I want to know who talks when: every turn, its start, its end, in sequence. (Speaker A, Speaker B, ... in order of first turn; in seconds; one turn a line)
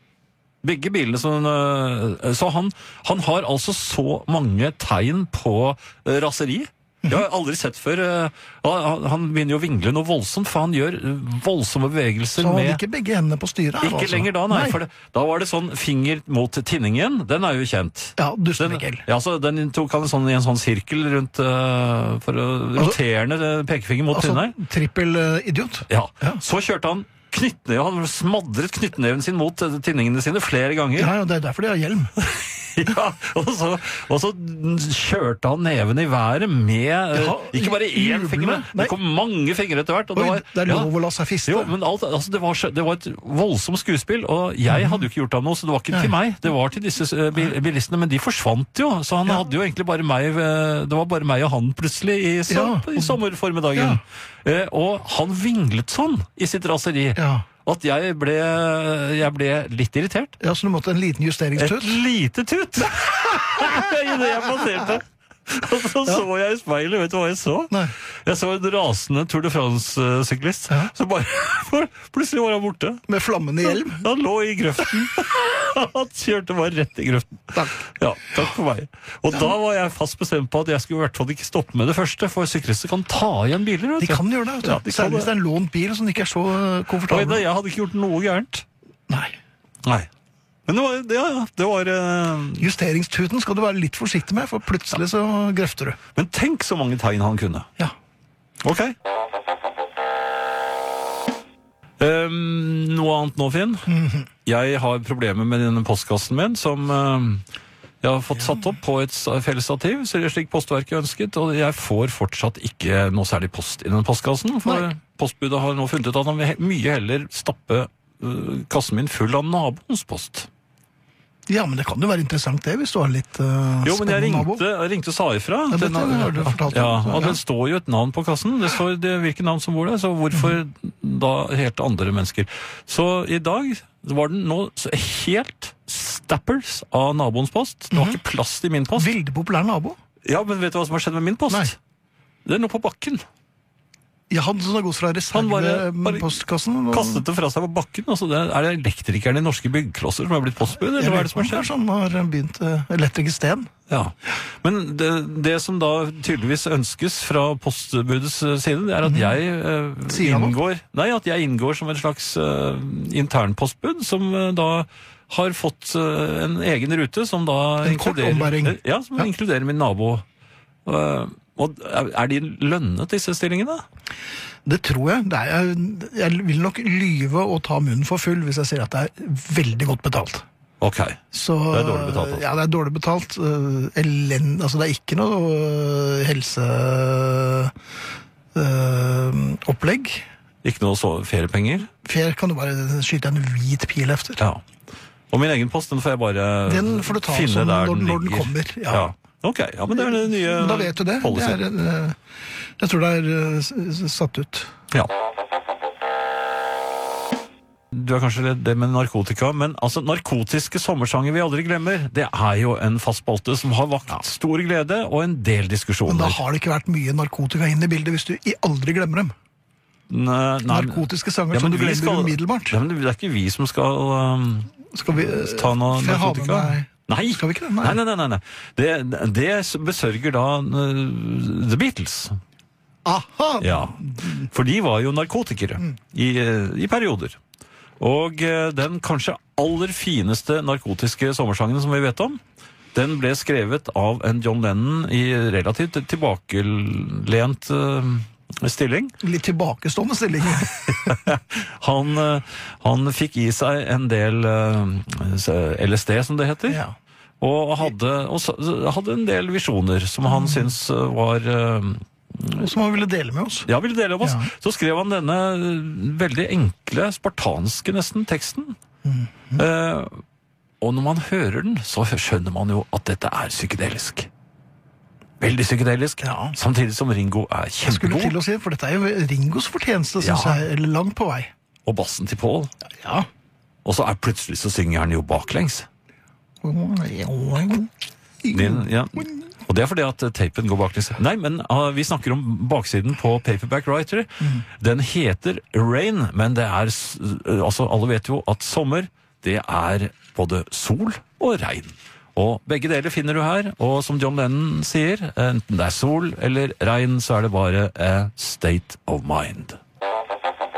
Speaker A: 0.6-12.8
Speaker B: 12.4-14.8
Speaker A: 13.8-24.6
Speaker B: 18.2-19.0
Speaker B: 24.1-26.4
Speaker A: 25.9-31.1
Speaker B: 30.9-32.1
Speaker A: 32.2-40.9
Speaker B: 37.1-38.9
Speaker B: 40.1-41.7
Speaker A: 41.5-60.4
Speaker B: 44.7-45.0
Speaker B: 52.5-53.2
Speaker B: 53.7-54.0
Speaker B: 57.1-57.5
Speaker B: 60.4-61.9
Speaker A: 61.6-73.0
Speaker B: 62.8-63.9
Speaker B: 73.1-74.0
Speaker A: 73.6-85.3
Speaker B: 84.0-87.4
Speaker A: 87.1-88.6
Speaker B: 89.1-89.3
Speaker A: 90.7-92.7
Speaker B: 92.6-96.0
Speaker A: 96.1-97.7
Speaker A: 98.6-98.9
Speaker A: 102.0-103.9
Speaker B: 103.9-104.3
Speaker A: 104.4-107.4
Speaker A: 108.0-120.5
Speaker B: 121.5-124.6
Speaker A: 123.8-139.1
Speaker B: 125.7-127.4
Speaker B: 137.9-138.2
Speaker B: 138.9-140.0
Speaker A: 140.2-141.8
Speaker A: 142.4-143.2
Speaker B: 144.3-147.2
Speaker A: 145.3-146.3
Speaker A: 146.9-151.7
Speaker B: 150.6-153.7
Speaker A: 153.9-170.2
Speaker B: 159.0-159.4
Speaker B: 160.1-160.6
Speaker B: 167.8-169.3
Speaker A: 170.8-173.8
Speaker B: 174.6-180.4
Speaker A: 180.8-182.4
Speaker B: 181.3-187.7
Speaker B: 188.5-190.2
Speaker A: 190.6-191.9
Speaker B: 192.0-194.4
Speaker A: 195.3-201.6
Speaker B: 196.7-199.1
Speaker B: 200.0-202.2
Speaker B: 202.8-204.7
Speaker A: 207.9-216.4
Speaker B: 216.1-219.3
Speaker A: 220.1-232.4
Speaker B: 220.7-222.8
Speaker B: 224.9-228.0
Speaker B: 233.0-234.5
Speaker A: 233.6-237.4
Speaker A: 238.0-242.4
Speaker A: 242.9-249.1
Speaker B: 249.2-251.2
Speaker A: 250.9-256.8
Speaker B: 256.7-256.9
Speaker A: 257.4-262.7
Speaker B: 260.3-260.7
Speaker B: 262.6-263.7
Speaker A: 263.6-268.8
Speaker B: 264.2-264.5
Speaker B: 269.0-269.6
Speaker A: 269.6-270.2
Speaker A: 270.8-274.3
Speaker A: 275.4-278.4
Speaker B: 276.2-276.6
Speaker B: 277.9-281.5
Speaker A: 280.2-280.6
Speaker A: 281.8-282.7
Speaker B: 283.0-283.3
Speaker A: 283.8-285.9
Speaker B: 286.6-287.9
Speaker B: 288.4-289.3
Speaker A: 288.5-309.8